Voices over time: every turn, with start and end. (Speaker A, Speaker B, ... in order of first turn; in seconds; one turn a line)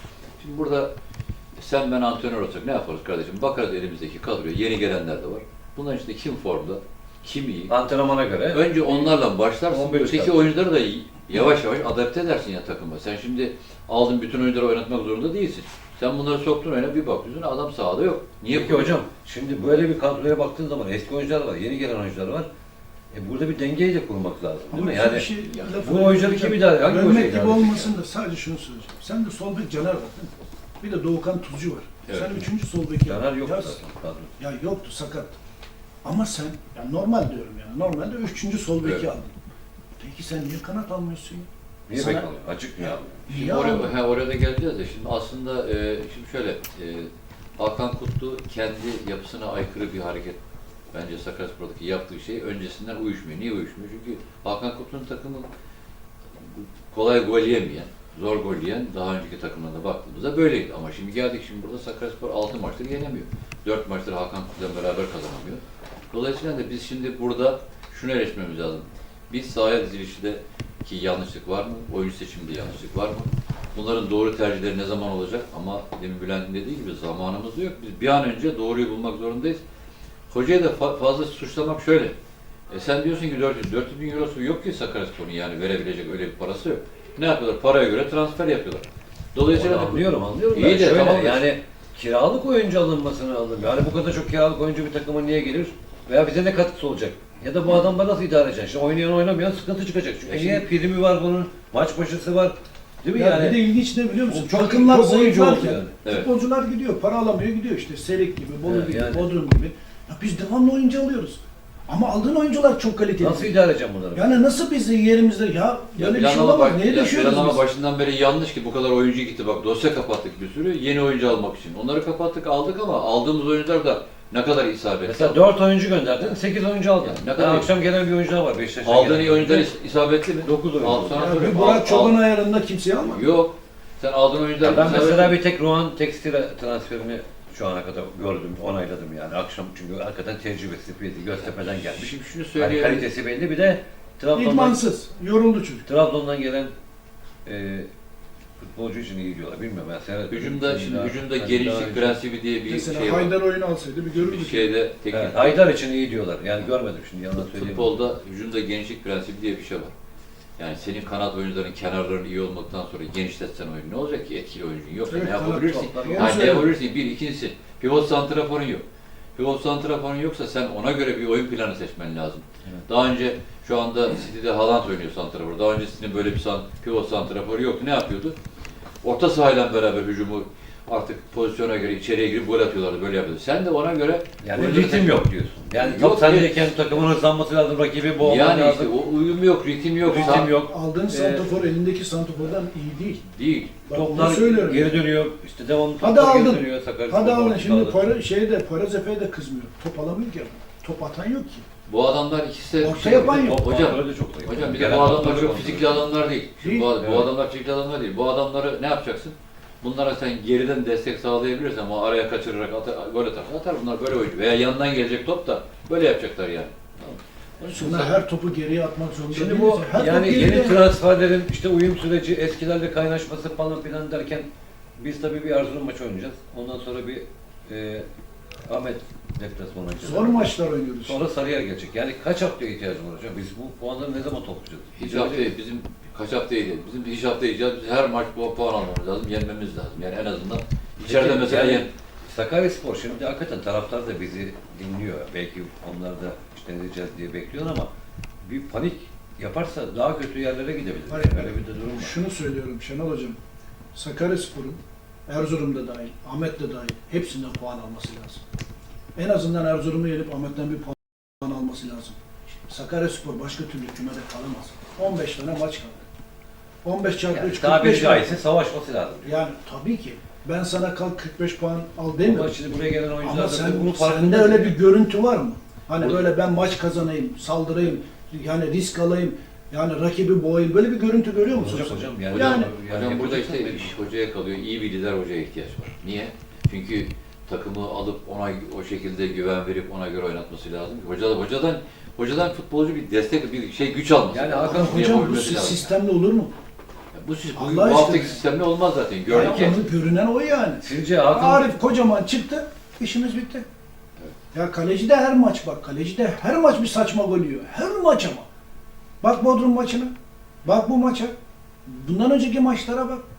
Speaker A: 0.4-0.9
Speaker A: 1.6-7.7
Speaker B: 7.7-9.2
Speaker A: 8.5-19.0
Speaker B: 9.7-10.5
Speaker B: 18.5-22.5
Speaker B: 23.1-25.3
Speaker C: 24.7-33.8
Speaker B: 25.8-27.9
Speaker A: 32.1-32.4
Speaker B: 33.0-34.3
Speaker C: 34.4-35.4
Speaker C: 36.0-39.3
Speaker C: 40.0-42.3
Speaker B: 41.9-43.2
Speaker C: 42.8-43.9
Speaker A: 43.3-50.4
Speaker A: 50.9-55.5
Speaker A: 56.4-79.6
Speaker A: 80.3-82.1
Speaker A: 82.7-91.5
Speaker B: 89.5-103.6
Speaker A: 100.3-100.6
Speaker C: 103.1-113.5
Speaker B: 104.3-106.0
Speaker B: 108.6-109.3
Speaker B: 113.2-114.3
Speaker C: 114.1-117.6
Speaker A: 116.0-125.4
Speaker B: 125.0-129.7
Speaker A: 127.0-127.7
Speaker A: 128.8-132.2
Speaker B: 130.4-131.5
Speaker C: 131.1-133.2
Speaker A: 133.0-135.4
Speaker B: 134.6-144.8
Speaker A: 141.7-143.1
Speaker C: 144.3-145.8
Speaker B: 145.8-146.7
Speaker B: 147.4-147.9
Speaker B: 148.6-152.2
Speaker A: 150.3-153.4
Speaker C: 152.7-154.7
Speaker A: 154.1-155.6
Speaker B: 155.1-158.1
Speaker A: 157.3-159.9
Speaker A: 160.6-168.8
Speaker C: 165.1-166.7
Speaker B: 165.7-166.6
Speaker A: 169.3-178.3
Speaker A: 179.0-185.2
Speaker B: 184.4-188.9
Speaker A: 185.8-187.0
Speaker A: 188.2-190.5
Speaker B: 190.0-191.4
Speaker C: 190.1-193.2
Speaker A: 193.3-193.8
Speaker C: 193.8-195.0
Speaker B: 193.9-198.0
Speaker C: 196.0-201.7
Speaker A: 201.9-216.7
Speaker C: 202.8-203.6
Speaker B: 203.0-206.1
Speaker C: 206.6-206.9
Speaker B: 207.0-207.3
Speaker A: 217.6-218.1
Speaker C: 217.7-220.8
Speaker B: 219.3-228.1
Speaker B: 228.7-235.5
Speaker C: 230.0-231.2
Speaker A: 235.0-241.9
Speaker B: 241.1-247.9
Speaker B: 248.4-252.1
Speaker C: 251.1-253.4
Speaker C: 253.9-258.4
Speaker C: 259.1-266.0
Speaker C: 266.8-268.3
Speaker B: 267.3-269.4
Speaker C: 269.2-282.7
Speaker B: 272.2-274.8
Speaker B: 281.5-283.9
Speaker A: 282.3-295.9
Speaker B: 294.3-295.3
Speaker C: 294.6-296.5
Speaker A: 297.1-299.9
Speaker C: 297.5-298.4
Speaker C: 299.3-303.6
Speaker B: 299.3-299.8
Speaker B: 300.8-301.7
Speaker C: 304.5-308.5
Speaker C: 309.2-310.1
Speaker C: 310.6-311.3
Speaker C: 311.9-313.2